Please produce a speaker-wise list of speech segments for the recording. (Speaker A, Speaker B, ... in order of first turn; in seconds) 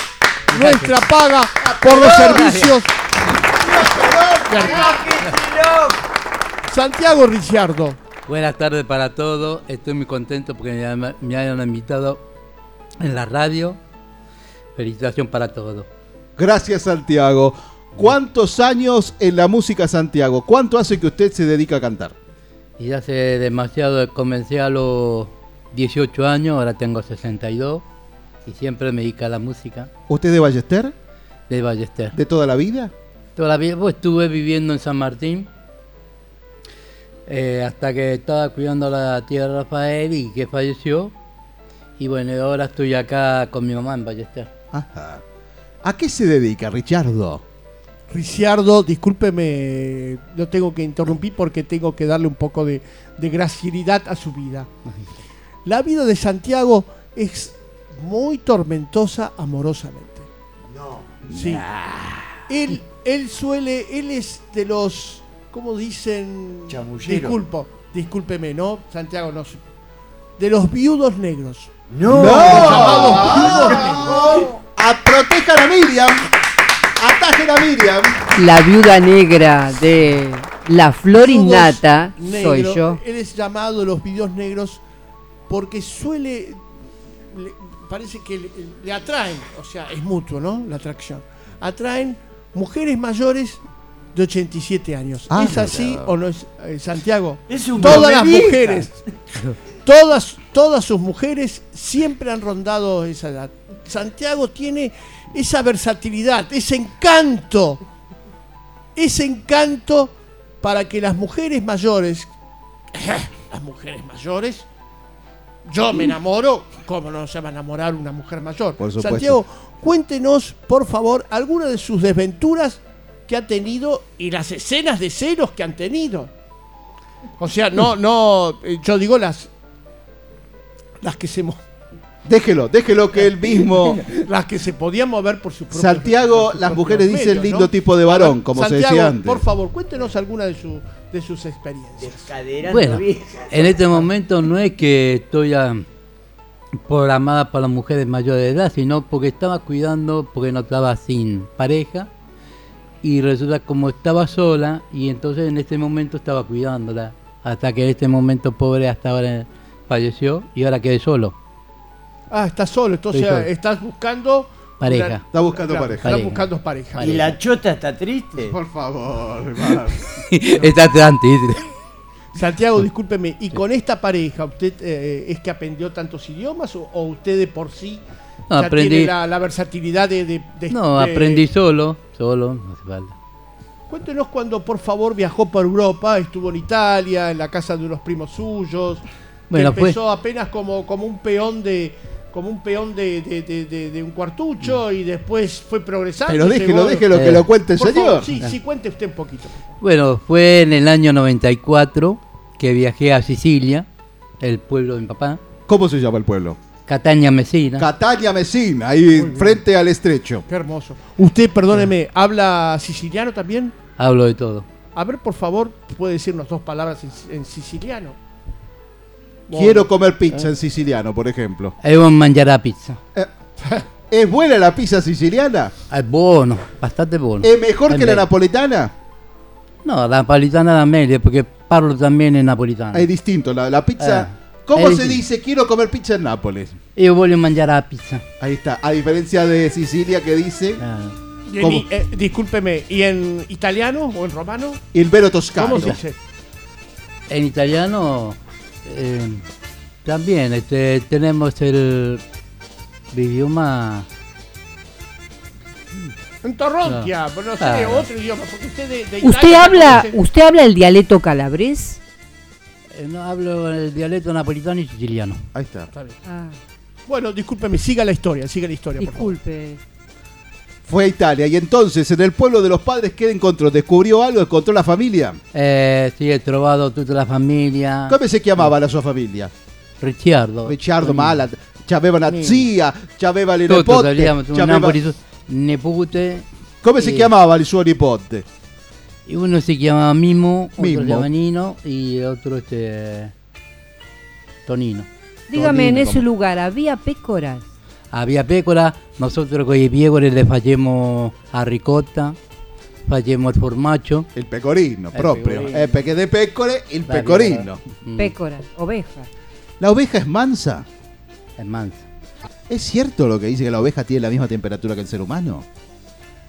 Speaker A: 0.5-2.9, 4.5-4.9, 6.7-8.0, 48.1-54.7, 55.6-60.3, 61.3-61.6, 62.5-69.6, 70.4-74.5, 81.2-84.8, 85.5-86.6, 87.3-93.6, 94.1-98.9, 99.8-107.8, 109.0-112.3, 112.9-114.7, 115.7-126.3, 127.4-129.5, 131.0-131.6, 134.1-142.2, 162.3-167.3, 172.3-178.0, 178.5-181.5, 183.9-199.7, 209.2-209.6, 210.5-213.8, 214.9-218.2, 219.5-219.9, 241.5-244.8, 245.6-246.2, 256.4-260.1, 265.9-266.2, 267.1-269.4, 282.3-282.6
Speaker B: 0.5-1.0, 1.9-2.6, 8.3-12.2, 13.0-13.8, 14.8-15.9, 22.8-27.8, 28.4-29.9, 31.5-32.1, 33.4-35.5, 37.3-41.1, 42.0-44.5, 142.7-145.8, 146.9-152.1, 153.0-161.3, 163.1-163.4, 164.8-165.2, 166.0-167.3, 170.3-171.6, 178.5-179.1, 180.7-183.1, 189.5-189.9, 197.1-197.4, 199.8-203.8, 204.4-205.4, 206.8-207.9, 214.0-214.7, 221.8-223.0, 225.9-228.2, 229.8-233.1, 234.0-235.2, 236.9-238.2, 240.8-241.1, 247.3-249.4, 250.0-252.2, 253.1-254.1, 257.6-258.0, 262.9-265.4, 275.5-278.7, 280.0-281.4, 283.7-286.4, 287.0-287.3, 289.3-293.3, 294.7-295.1, 295.6-296.1, 298.1-302.4, 303.1-304.3, 305.1-306.0, 307.1-308.3, 311.6-312.1
Speaker C: 3.7-4.8, 16.4-22.1, 30.1-30.9, 32.1-32.9, 44.7-45.2, 45.8-47.4, 61.2-62.3, 72.1-76.2, 77.0-78.2, 95.3-96.1, 118.8-119.4, 132.2-134.1, 135.7-139.4, 165.3-166.1, 168.4-170.0, 196.2-198.3, 205.7-206.6, 207.8-210.4, 219.5-221.7, 224.1-225.7, 227.4-228.9, 232.9-236.8, 238.4-240.8, 241.6-241.9, 244.9-246.0, 265.5-265.9, 270.9-275.4, 278.1-279.5, 280.6-284.9, 286.8-288.4, 290.8-291.3, 295.6-296.2, 304.3-307.8, 309.8-310.9, 312.7-315.6
Speaker D: 4.5-5.9, 60.7-61.1, 66.7-67.4, 71.9-73.9, 97.5-98.9, 142.0-144.0, 167.0-168.6
Speaker E: 78.4-83.0, 259.2-262.0, 266.2-266.6, 269.0-269.8, 295.5-297.6, 308.2-309.3